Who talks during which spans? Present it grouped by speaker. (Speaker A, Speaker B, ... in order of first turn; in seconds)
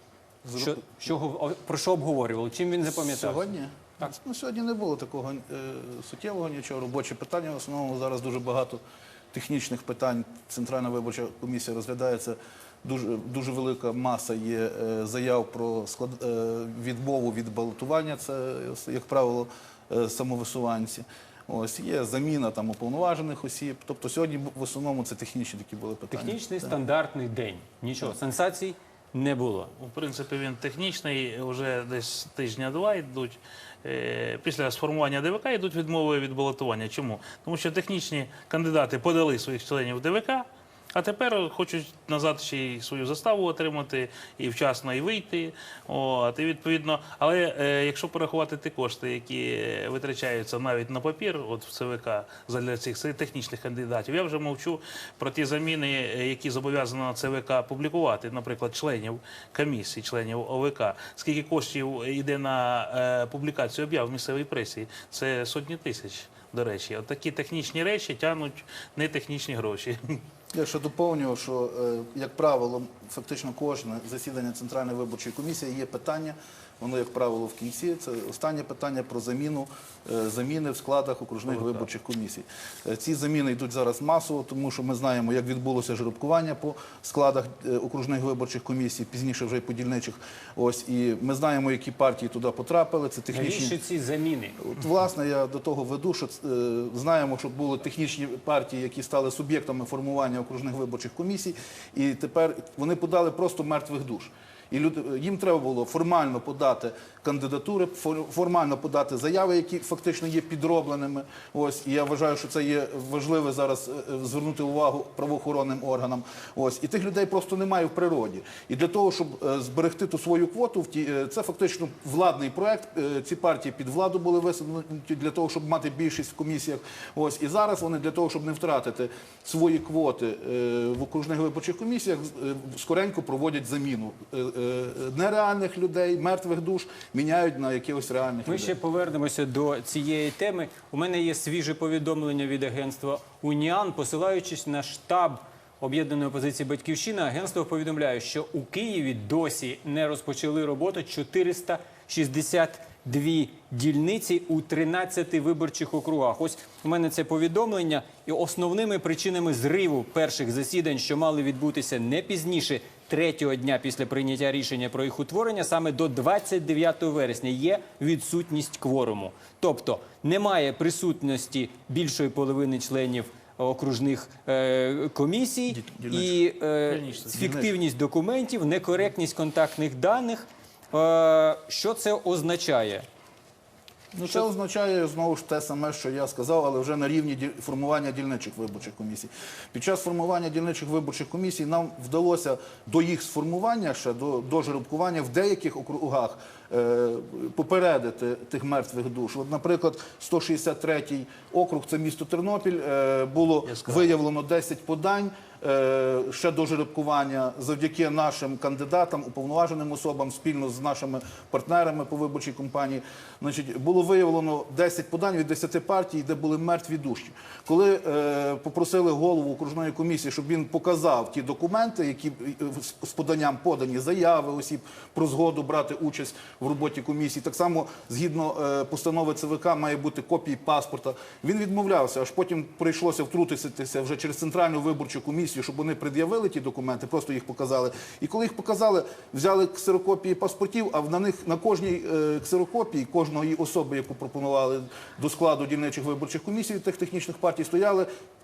Speaker A: 0.4-0.8, 2.9-8.8, 9.3-26.8, 70.5-93.8, 94.6-138.7, 175.7-176.4, 177.3-177.7, 184.1-248.1
Speaker B: 0.6-3.5, 26.1-29.7, 93.3-94.6, 138.5-183.1
Speaker C: 29.8-70.2, 81.5-81.9, 176.9-177.2, 203.7-204.2